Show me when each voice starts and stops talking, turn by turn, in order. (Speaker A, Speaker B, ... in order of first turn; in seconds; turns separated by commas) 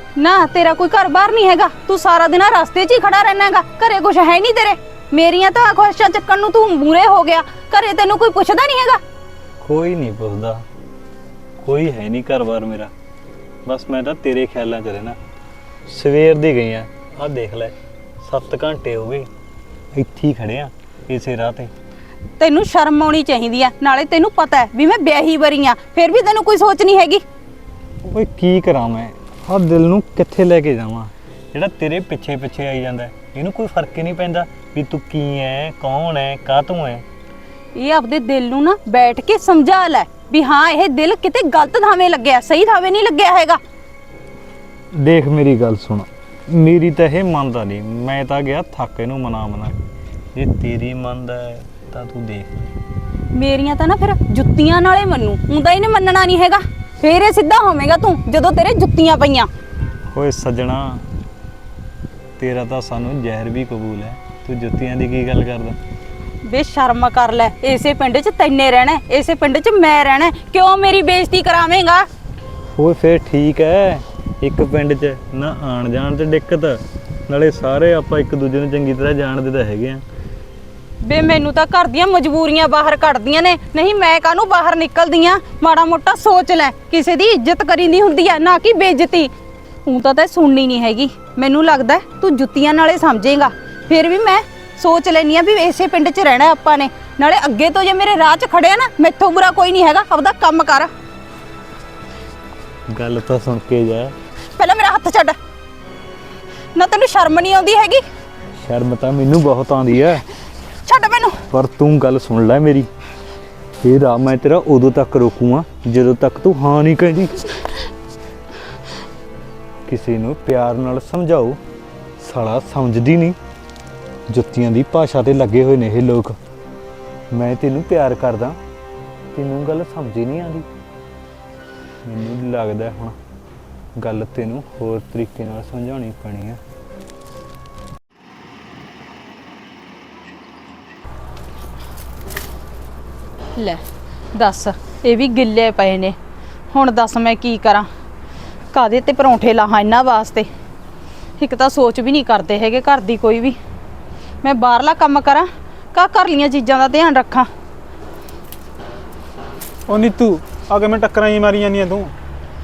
Speaker A: 0.2-9.0, Speaker B: 9.6-10.6, Speaker B: 11.6-12.9, Speaker B: 13.7-15.2, Speaker B: 15.9-19.3, Speaker B: 19.9-21.7, Speaker A: 22.4-27.2, Speaker B: 28.1-37.0, Speaker A: 37.8-43.6, Speaker B: 44.9-49.8, Speaker B: 50.3-52.7, Speaker A: 53.3-59.5, Speaker B: 60.1-61.0, Speaker B: 62.4-65.8, Speaker A: 66.5-72.1, Speaker B: 72.7-80.0, Speaker A: 81.0-89.3, Speaker A: 89.9-100.9, Speaker B: 102.9-104.1, Speaker A: 104.6-105.4, Speaker A: 106.8-108.0, Speaker B: 108.6-110.2, Speaker A: 110.9-111.4, Speaker B: 111.5-112.9, Speaker B: 113.8-117.4, Speaker B: 119.9-121.6, Speaker B: 122.2-123.4, Speaker B: 124.3-126.4, Speaker B: 127.3-128.6, Speaker B: 129.3-130.7, Speaker B: 132.1-133.2, Speaker B: 134.0-136.6, Speaker A: 143.6-143.8, Speaker A: 144.3-146.2, Speaker A: 146.7-147.9, Speaker A: 148.7-150.5, Speaker A: 151.4-153.6, Speaker A: 154.4-157.5, Speaker C: 159.9-162.1